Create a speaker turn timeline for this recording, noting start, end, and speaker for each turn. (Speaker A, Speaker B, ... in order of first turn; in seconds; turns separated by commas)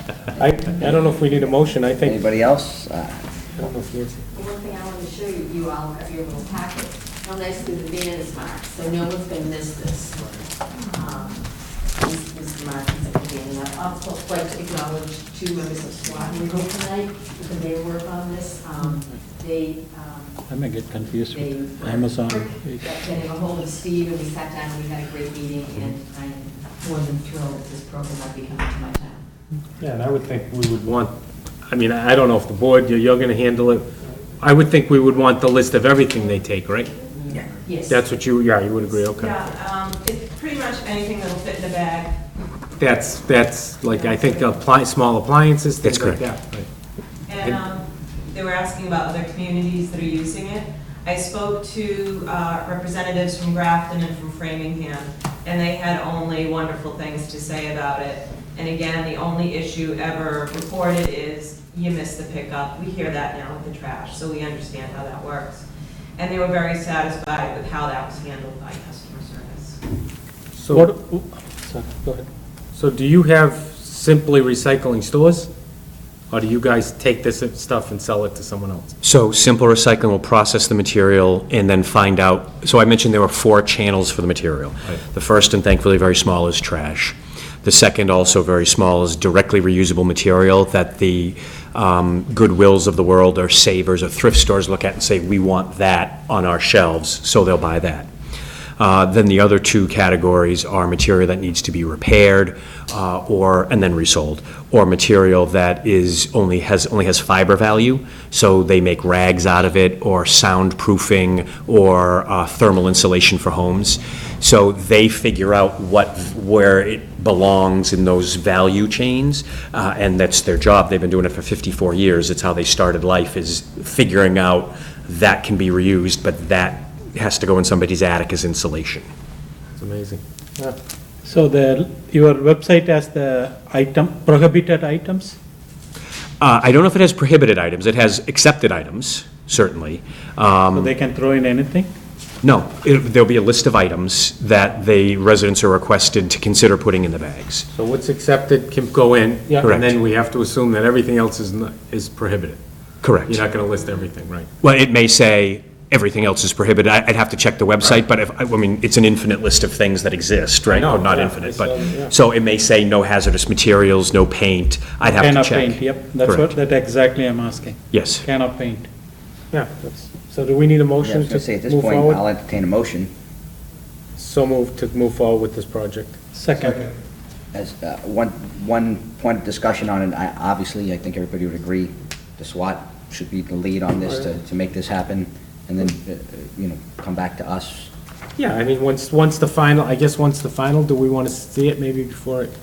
Speaker A: 0.3-2.2, Speaker B: 2.0-3.3, Speaker A: 3.5-4.2, Speaker C: 4.3-20.5, Speaker D: 20.5-22.9, Speaker C: 21.3-29.2, Speaker A: 29.8-31.1, Speaker A: 31.6-37.0, Speaker C: 37.5-38.0, Speaker A: 37.9-39.3, Speaker E: 39.1-42.2, Speaker A: 42.8-46.7, Speaker E: 43.9-44.5, Speaker F: 45.8-46.2, Speaker E: 47.3-65.6, Speaker E: 66.2-69.8, Speaker A: 70.5-71.0, Speaker D: 70.7-72.0, Speaker A: 72.0-75.5, Speaker A: 76.3-78.9, Speaker F: 79.0-98.1, Speaker F: 98.8-129.1, Speaker A: 129.8-130.8, Speaker D: 131.2-135.4, Speaker F: 136.4-140.9, Speaker D: 140.7-141.9, Speaker F: 142.4-147.7, Speaker A: 147.7-152.6, Speaker F: 149.6-149.9, Speaker F: 153.0-153.4, Speaker A: 153.3-154.5, Speaker F: 154.6-166.5, Speaker A: 160.7-162.1, Speaker D: 165.0-168.9, Speaker F: 167.9-168.2, Speaker A: 169.5-172.2, Speaker B: 171.0-173.1, Speaker A: 174.2-176.2, Speaker D: 176.3-176.9, Speaker B: 177.5-187.9, Speaker A: 188.3-192.5